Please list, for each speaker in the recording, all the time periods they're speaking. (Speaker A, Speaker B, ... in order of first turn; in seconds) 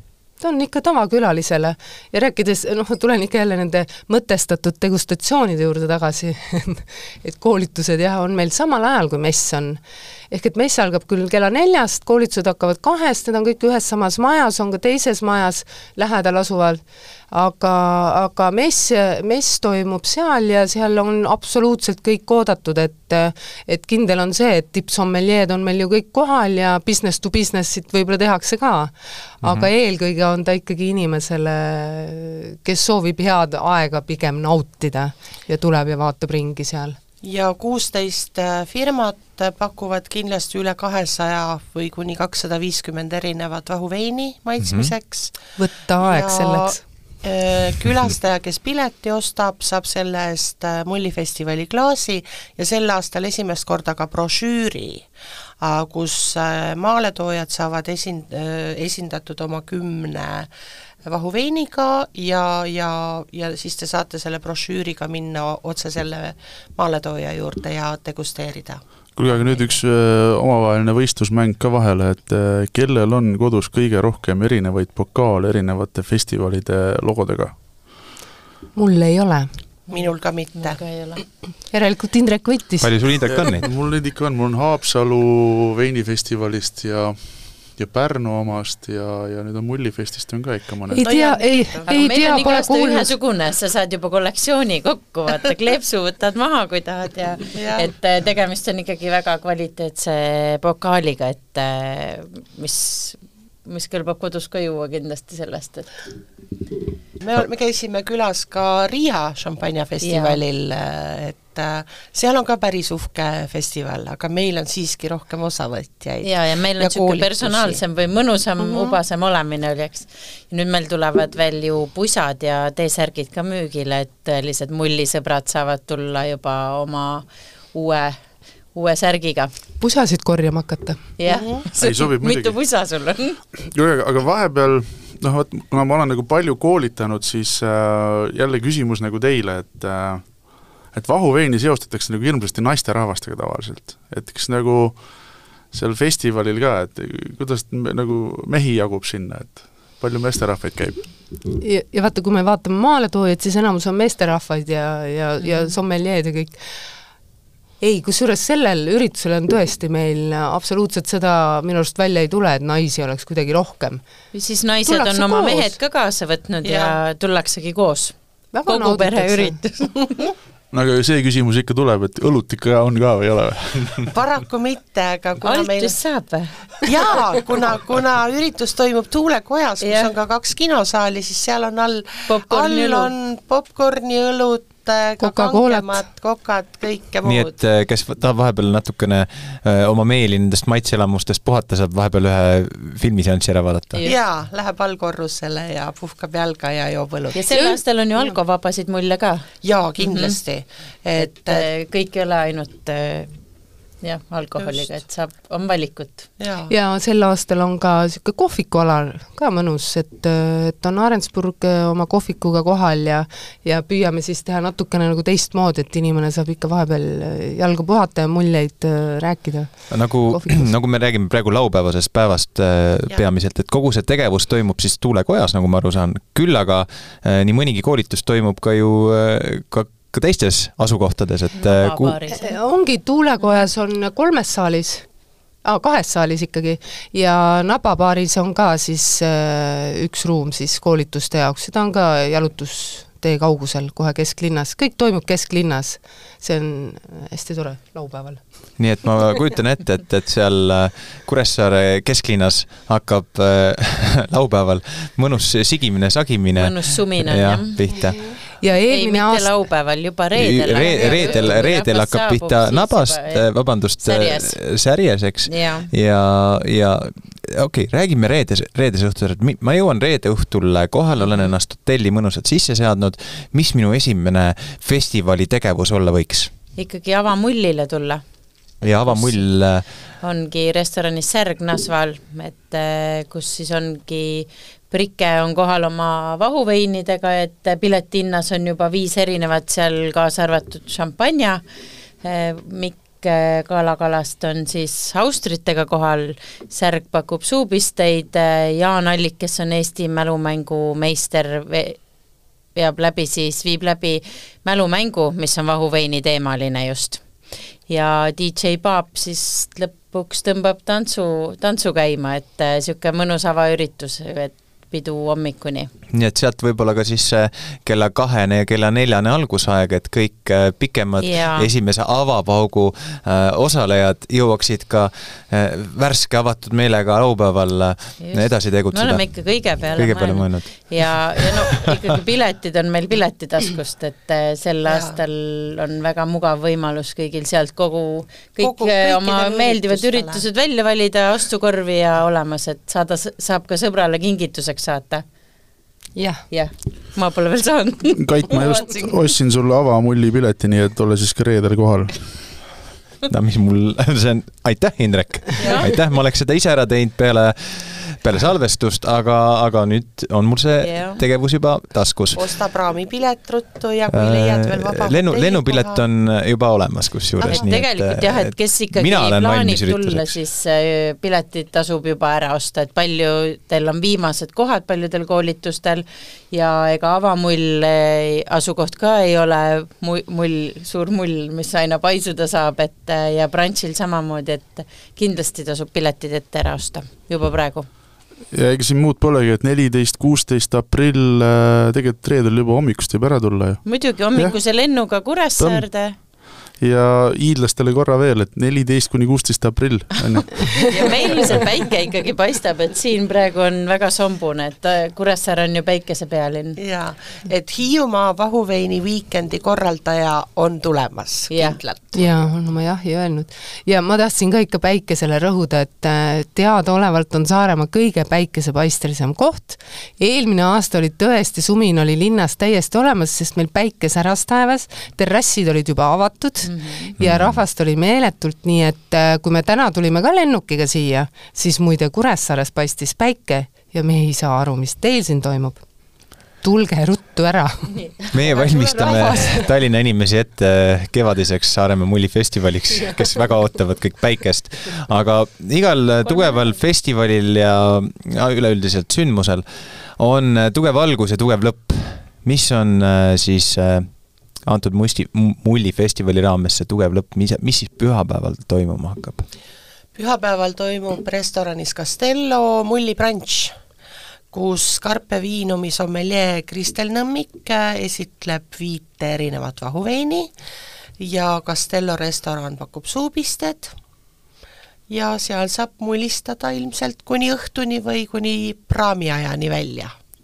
Speaker A: 0.4-37.0, 45.6-46.9, 78.8-79.6, 81.7-83.6, 90.9-93.1, 129.8-131.1, 151.6-156.6, 157.8-164.0, 164.9-165.8, 168.5-169.6, 185.2-186.0, 197.5-198.3, 206.7-220.7, 232.3-235.1, 235.6-248.5, 258.4-259.7, 346.1-346.4, 412.1-435.8, 436.6-437.9
Speaker B: 29.4-29.7, 44.6-44.9, 82.8-83.7, 187.2-194.0, 219.9-232.2, 248.8-258.4, 260.4-276.5, 278.8-279.9, 316.1-331.8, 353.3-362.5, 364.1-370.3, 427.2-427.6, 438.3-449.6, 450.2-459.5
Speaker C: 37.2-55.1, 55.6-60.5, 61.0-69.2, 79.9-80.8, 91.0-92.5, 97.5-97.9, 107.2-117.8, 118.6-119.0, 131.2-131.6, 166.6-167.0, 174.1-176.2, 176.8-187.6, 194.0-197.4, 199.6-201.7, 204.6-204.9, 206.4-206.7, 334.9-335.2, 338.6-340.4, 355.6-355.9, 362.3-366.0, 406.8-412.3, 460.1-463.8, 464.5-470.5, 471.2-473.9, 475.1-480.1
Speaker D: 69.2-77.6, 83.3-91.0, 131.7-132.6, 133.7-151.1, 170.7-174.1, 348.2-352.5, 388.5-394.6, 395.6-401.0
Speaker E: 79.9-81.2, 91.9-106.0, 110.0-110.4, 116.2-128.2, 128.7-129.5, 131.2-133.4, 155.4-155.8, 164.3-170.2, 175.4-176.9, 179.8-180.1, 182.3-183.1, 193.9-194.2, 197.3-200.4, 201.2-203.3, 204.0-206.3, 231.5-232.6, 256.6-257.8, 258.9-264.6, 265.5-265.9, 271.2-271.5, 276.8-278.2, 279.1-279.5, 280.2-291.6, 292.2-302.0, 302.8-307.3, 307.9-315.9, 321.2-321.7, 328.2-345.2, 346.5-349.2, 355.6-355.9, 360.8-361.2, 367.4-387.9, 393.9-396.2, 400.9-406.8, 411.5-411.8, 426.6-427.2, 437.9-439.7, 446.2-446.8